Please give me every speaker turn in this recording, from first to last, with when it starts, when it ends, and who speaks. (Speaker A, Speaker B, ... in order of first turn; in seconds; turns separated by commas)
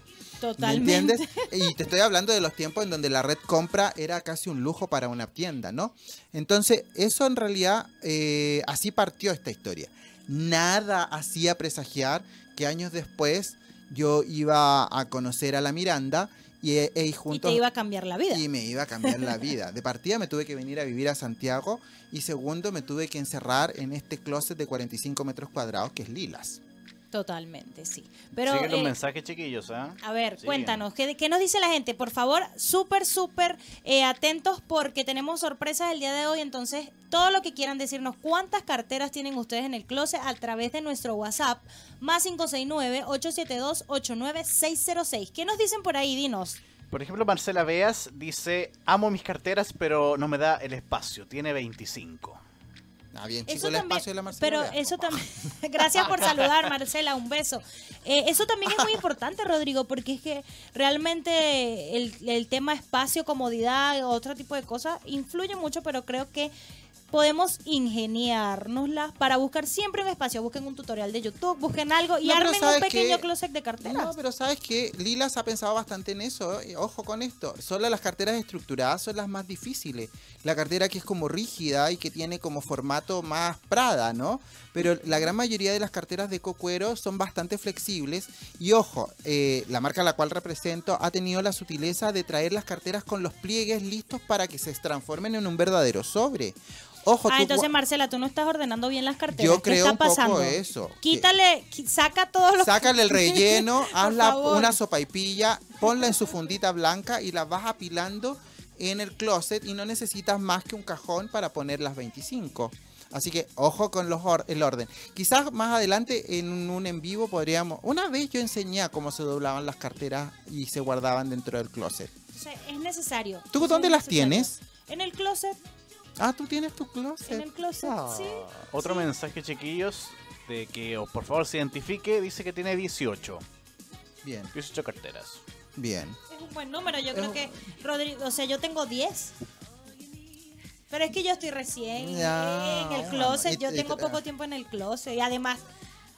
Speaker A: 0.4-1.7, Speaker B: 0.6-17.6, Speaker A: 17.3-18.4, Speaker B: 18.3-26.6, Speaker A: 19.0-19.4, Speaker A: 27.1-28.9, Speaker C: 28.4-30.8, Speaker A: 30.0-46.6, Speaker C: 46.9-52.4, Speaker B: 53.1-56.5, Speaker A: 53.5-66.5, Speaker A: 67.1-74.1, Speaker B: 72.2-73.2, Speaker B: 73.8-97.7, Speaker A: 97.3-104.8, Speaker B: 99.3-101.3, Speaker B: 102.6-122.1, Speaker A: 122.3-125.6, Speaker B: 123.5-124.6, Speaker B: 126.2-128.7, Speaker A: 127.3-129.1, Speaker C: 128.6-133.4, Speaker B: 134.2-134.5, Speaker C: 134.5-135.4, Speaker B: 135.8-136.2, Speaker A: 136.3-139.3, Speaker B: 137.1-137.5, Speaker A: 140.9-145.6, Speaker B: 141.9-144.2